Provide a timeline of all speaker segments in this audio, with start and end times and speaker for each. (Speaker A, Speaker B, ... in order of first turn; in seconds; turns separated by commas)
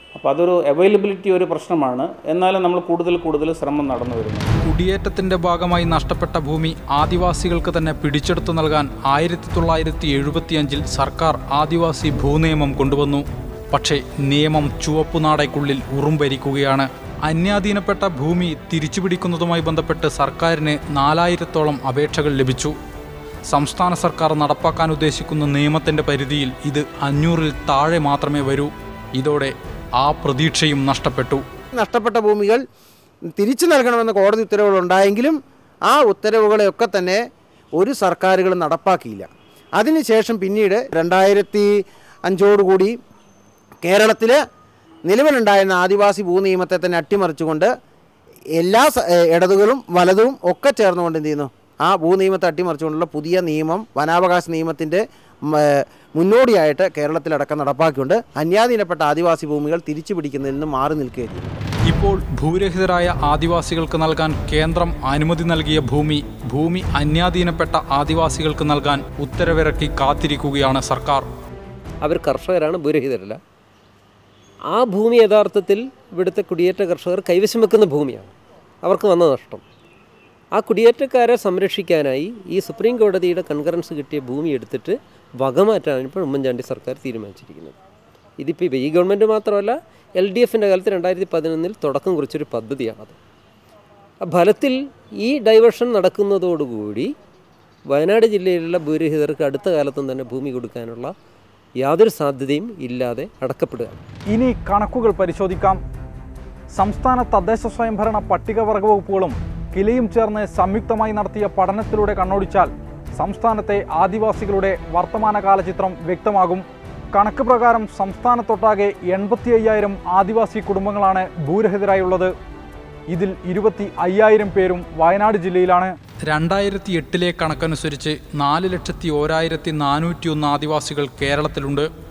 Speaker A: 0.1-4.5, Speaker B: 4.6-22.8, Speaker B: 23.5-31.4, Speaker C: 31.8-32.6, Speaker C: 33.4-37.2, Speaker C: 37.8-41.7, Speaker C: 42.3-43.0, Speaker C: 43.8-44.4, Speaker C: 45.1-47.7, Speaker C: 48.6-61.6, Speaker B: 61.9-71.3, Speaker D: 72.0-73.4, Speaker D: 74.7-78.3, Speaker D: 78.8-79.6, Speaker D: 80.5-87.8, Speaker D: 88.4-93.2, Speaker D: 94.2-97.1, Speaker D: 97.9-101.1, Speaker D: 101.8-104.0, Speaker B: 104.3-105.8, Speaker B: 106.8-122.3, Speaker B: 123.1-131.9